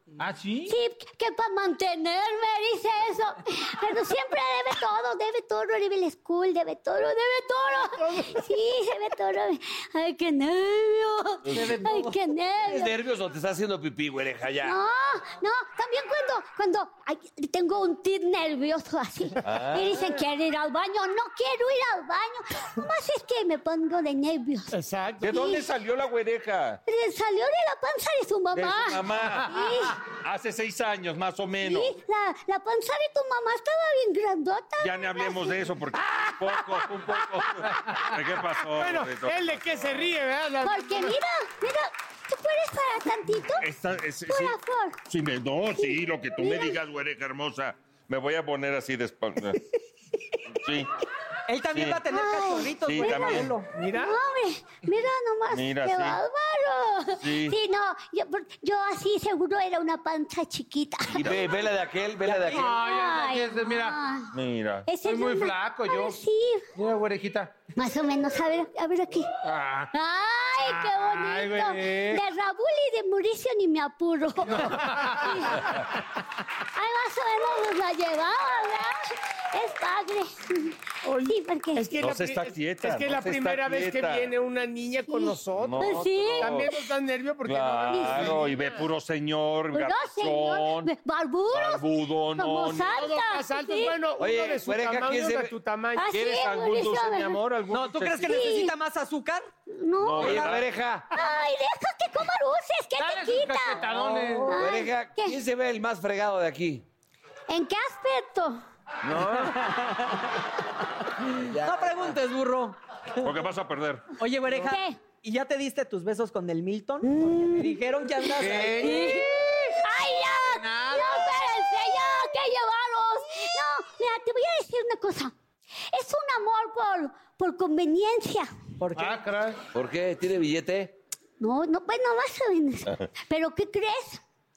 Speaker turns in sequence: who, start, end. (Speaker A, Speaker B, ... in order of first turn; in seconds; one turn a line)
Speaker A: 0.2-0.8
Speaker B: 0.7-13.0
Speaker C: 11.5-11.8
Speaker D: 11.6-12.1
Speaker C: 12.6-14.8
Speaker B: 14.6-25.6
Speaker E: 19.4-19.9
Speaker F: 24.7-25.3
Speaker E: 25.2-26.8
Speaker B: 26.9-30.0
Speaker E: 28.5-32.0
Speaker B: 31.6-35.6
Speaker E: 34.8-40.1
Speaker A: 37.7-38.0
Speaker F: 38.7-41.2
Speaker B: 40.6-43.7
Speaker E: 43.6-49.6
Speaker B: 44.3-45.0
Speaker B: 45.7-46.8
Speaker E: 50.5-50.9
Speaker D: 51.5-53.7
Speaker E: 51.7-52.0
Speaker B: 52.1-61.4
Speaker E: 52.8-53.5
Speaker F: 53.7-54.2
Speaker E: 55.5-56.2
Speaker E: 57.2-57.6
Speaker C: 61.1-62.8
Speaker D: 62.2-62.6
Speaker A: 62.5-64.0
Speaker B: 62.8-64.3
Speaker E: 64.3-64.9
Speaker B: 64.8-66.7
Speaker A: 65.0-66.2
Speaker A: 66.8-67.5
Speaker B: 67.8-69.3
Speaker A: 69.4-69.9
Speaker B: 69.9-75.7
Speaker A: 70.6-72.2
Speaker A: 74.5-75.8
Speaker B: 76.7-79.0
Speaker B: 79.5-82.0
Speaker F: 81.0-88.6
Speaker E: 82.0-84.3
Speaker B: 85.1-86.8
Speaker E: 85.6-86.7
Speaker E: 87.4-90.9
Speaker B: 87.9-88.4
Speaker B: 89.7-94.0
Speaker E: 91.5-93.0
Speaker F: 92.9-96.1
Speaker C: 94.2-95.5
Speaker B: 95.9-97.4
Speaker E: 96.1-98.4
Speaker D: 97.7-99.5
Speaker B: 98.3-98.7
Speaker B: 99.7-100.5
Speaker E: 100.0-100.7
Speaker C: 100.2-101.1
Speaker B: 101.1-105.4
Speaker A: 103.0-104.6
Speaker C: 104.5-106.8
Speaker B: 107.5-108.6
Speaker C: 109.0-109.3
Speaker D: 109.2-110.2
Speaker C: 111.4-112.2
Speaker D: 111.6-112.8
Speaker E: 113.2-114.1
Speaker D: 114.2-119.0
Speaker B: 114.6-115.0
Speaker B: 117.0-117.8
Speaker A: 118.4-119.2
Speaker B: 118.8-125.3
Speaker A: 120.1-121.4
Speaker B: 125.9-128.5
Speaker D: 128.8-129.2
Speaker A: 128.9-129.6
Speaker C: 129.7-130.9
Speaker B: 131.4-134.2